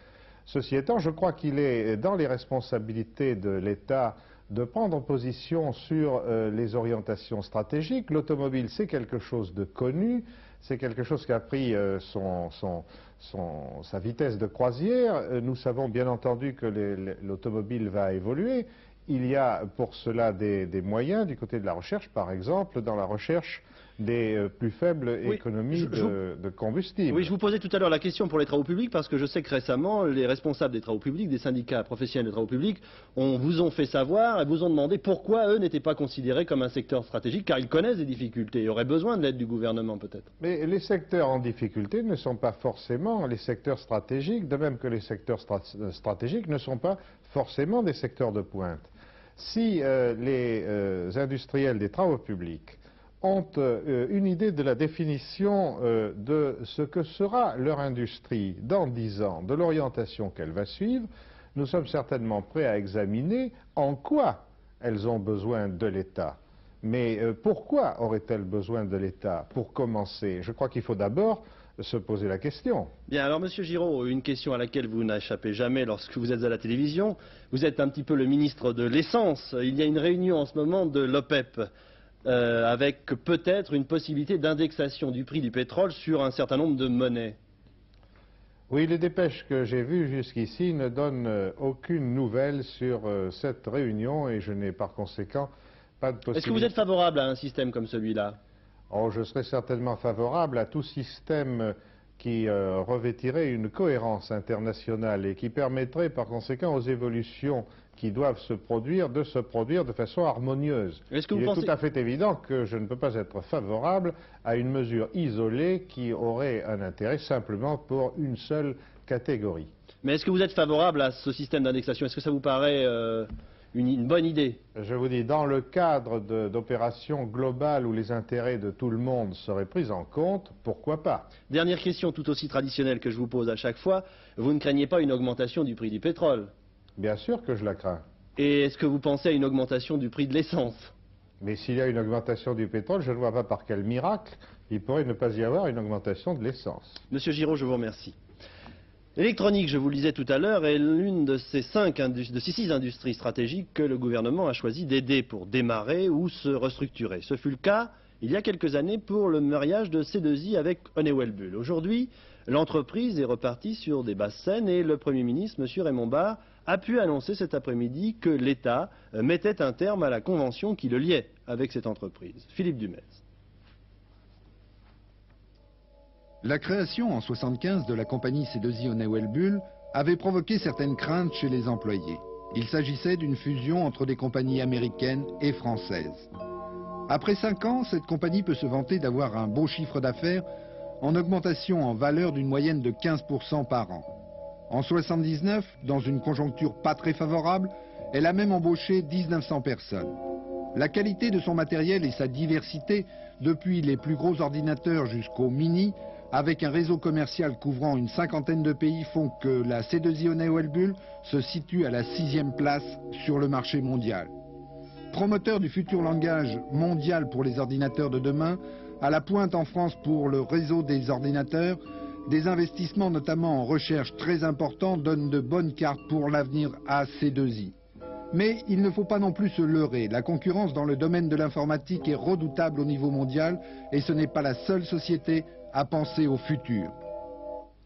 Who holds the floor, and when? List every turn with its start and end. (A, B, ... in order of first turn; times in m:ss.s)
0:00.4-0:27.3 A
0:25.2-0:26.1 B
0:27.1-0:40.3 B
0:40.4-1:12.9 A
1:13.1-1:21.7 B
1:22.2-1:27.4 B
1:28.7-1:36.7 A
1:36.3-1:38.4 B
1:38.9-1:59.7 A
1:51.1-1:51.7 B
2:00.0-2:04.6 B
2:04.7-2:11.3 A
2:11.5-2:16.5 B
2:17.0-2:18.0 A
2:18.4-2:20.9 B
2:21.4-2:27.0 A
2:27.1-2:28.2 B
2:29.2-2:53.2 B
2:56.4-3:06.3 C
3:07.1-3:10.4 C
3:11.0-3:14.1 C
3:14.7-3:20.1 C
3:20.7-3:34.3 C
3:35.1-3:47.7 C
3:48.3-3:56.9 C